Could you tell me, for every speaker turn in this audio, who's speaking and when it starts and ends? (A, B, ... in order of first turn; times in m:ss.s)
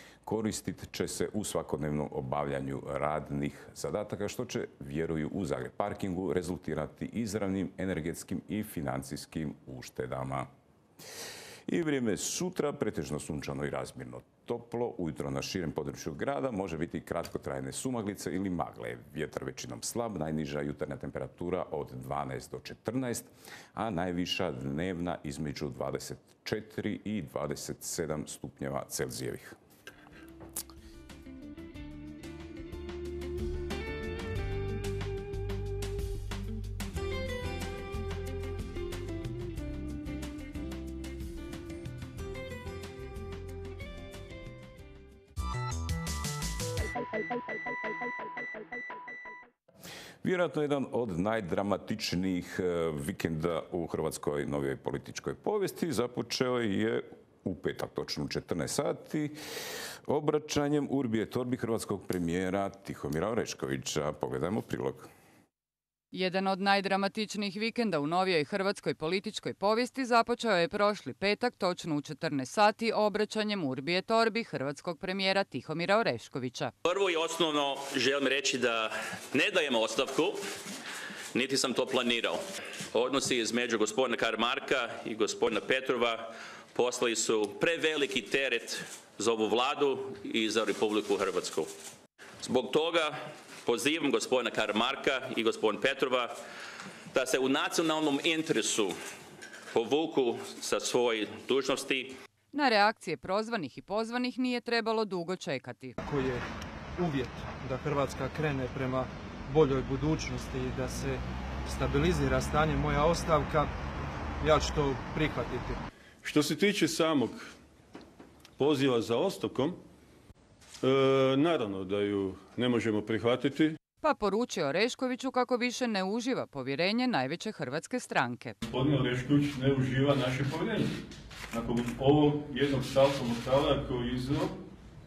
0:00.2-0:10.5 A
0:11.7-0:29.6 A
0:50.2-0:59.4 A
1:00.1-1:05.1 A
1:06.1-1:16.7 B
1:16.8-1:20.4 C
1:21.3-1:31.7 C
1:32.4-1:36.4 C
1:37.1-1:39.0 C
1:39.7-1:42.2 C
1:42.5-1:46.0 B
1:46.0-1:46.4 D
1:47.0-1:53.7 D
1:54.4-1:55.8 D
1:56.2-1:57.5 E
1:58.6-1:59.8 E
2:00.8-2:03.8 E
2:04.0-2:08.6 B
2:08.7-2:14.6 E